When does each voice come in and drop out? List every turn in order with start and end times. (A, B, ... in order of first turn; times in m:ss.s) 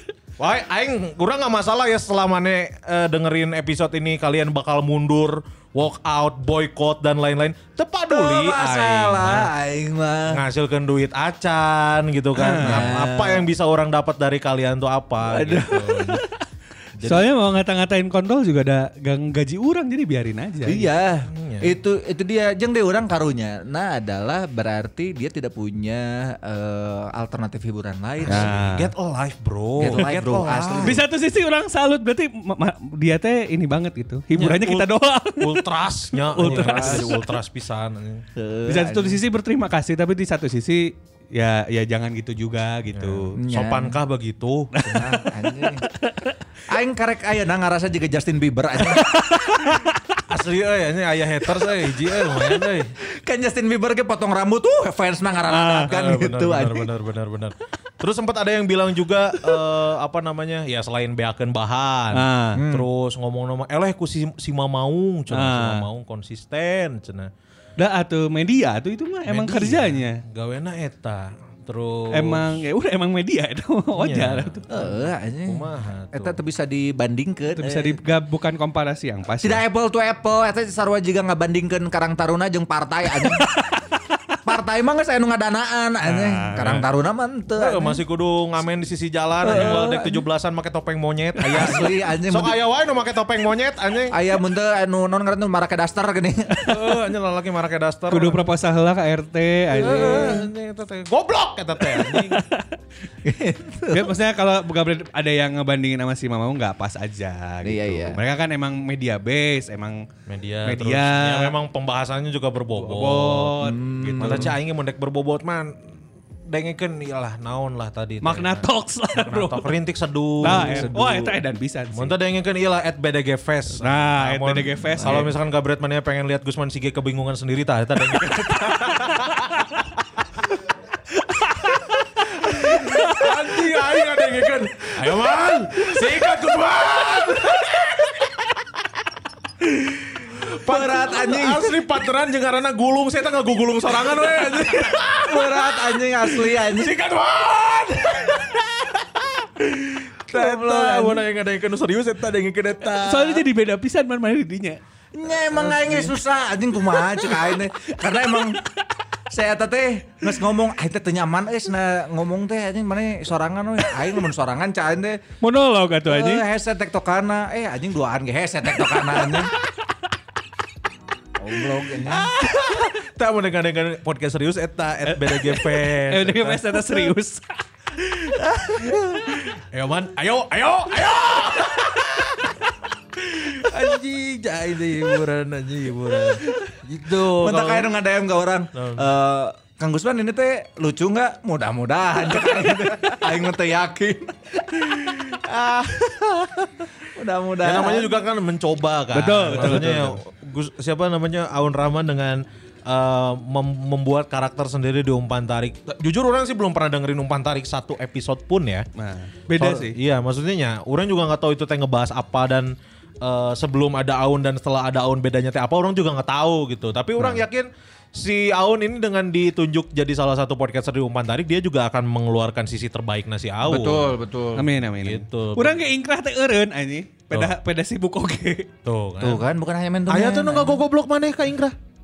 0:00.4-0:09.5 A
0:08.1-0:10.4 B
0:10.3-0:16.2 A
0:12.3-0:12.9 C
0:12.6-0:13.5 B
0:15.2-0:16.2 B
0:17.0-0:17.2 A
0:17.0-0:20.8 C
0:20.6-0:28.5 B
0:21.2-0:21.7 A
0:28.2-0:31.0 A
0:28.3-0:28.9 C
0:29.8-0:31.0 B
0:30.8-0:37.2 C
0:34.3-0:38.2 A
0:36.4-0:37.2 B
0:38.4-0:39.2 B
0:38.7-0:43.4 C
0:42.9-0:45.0 A
0:43.4-0:44.0 B
0:44.7-0:46.4 C
0:44.9-0:45.9 B
0:46.7-0:49.3 B
0:48.8-0:50.0 C
0:50.3-0:52.9 A
0:53.0-0:56.9 B
0:55.5-0:55.9 C
0:55.9-1:07.3 A
1:02.1-1:02.6 C
1:02.5-1:02.8 B
1:05.3-1:05.8 C
1:07.8-1:10.2 C
1:09.3-1:12.6 A
1:12.1-1:14.6 C
1:14.0-1:16.4 A
1:14.7-1:18.0 B
1:17.5-1:19.6 C
1:19.4-1:23.5 B
1:23.2-1:23.8 C
1:24.4-1:28.0 B
1:26.0-1:26.8 C
1:27.6-1:34.2 A
1:29.4-1:30.2 B
1:31.5-1:32.6 B
1:34.1-1:37.0 B
1:36.6-1:38.4 A
1:38.1-1:40.4 C
1:39.7-1:40.5 B
1:39.8-1:42.4 A
1:41.9-1:42.6 C
1:43.2-1:44.1 B
1:43.9-1:50.1 C
1:47.6-1:48.2 B
1:50.3-1:53.6 A
1:50.6-1:51.5 C
1:52.8-1:54.5 C
1:53.6-1:54.6 B
1:54.2-1:55.7 A
1:56.5-2:01.3 A
1:58.2-1:59.7 C
2:00.4-2:02.1 C
2:00.4-2:00.9 B
2:01.9-2:09.8 A
2:03.8-2:05.3 C
2:11.2-2:13.3 C
2:12.4-2:18.5 A
2:20.3-2:21.8 B
2:20.3-2:33.4 A
2:25.1-2:27.0 B
2:30.3-2:31.2 B
2:32.9-2:34.8 C
2:35.1-2:38.6 B
2:35.5-2:36.1 A
2:39.3-2:45.2 B
2:45.4-2:46.4 C
2:46.0-2:49.5 B
2:51.4-2:52.3 B
2:52.1-2:57.0 A
2:55.1-2:57.5 C
2:58.4-3:07.9 A
3:07.0-3:15.3 B
3:08.7-3:09.1 A
3:15.0-3:16.7 A
3:17.0-3:18.1 B
3:17.6-3:28.8 A
3:19.1-3:20.2 C
3:29.0-3:30.0 C
3:29.6-3:44.2 A
3:43.6-3:44.7 B
3:44.6-3:48.7 C
3:45.0-3:45.8 A
3:48.8-3:49.4 A
3:49.2-3:50.8 B
3:50.1-3:51.7 A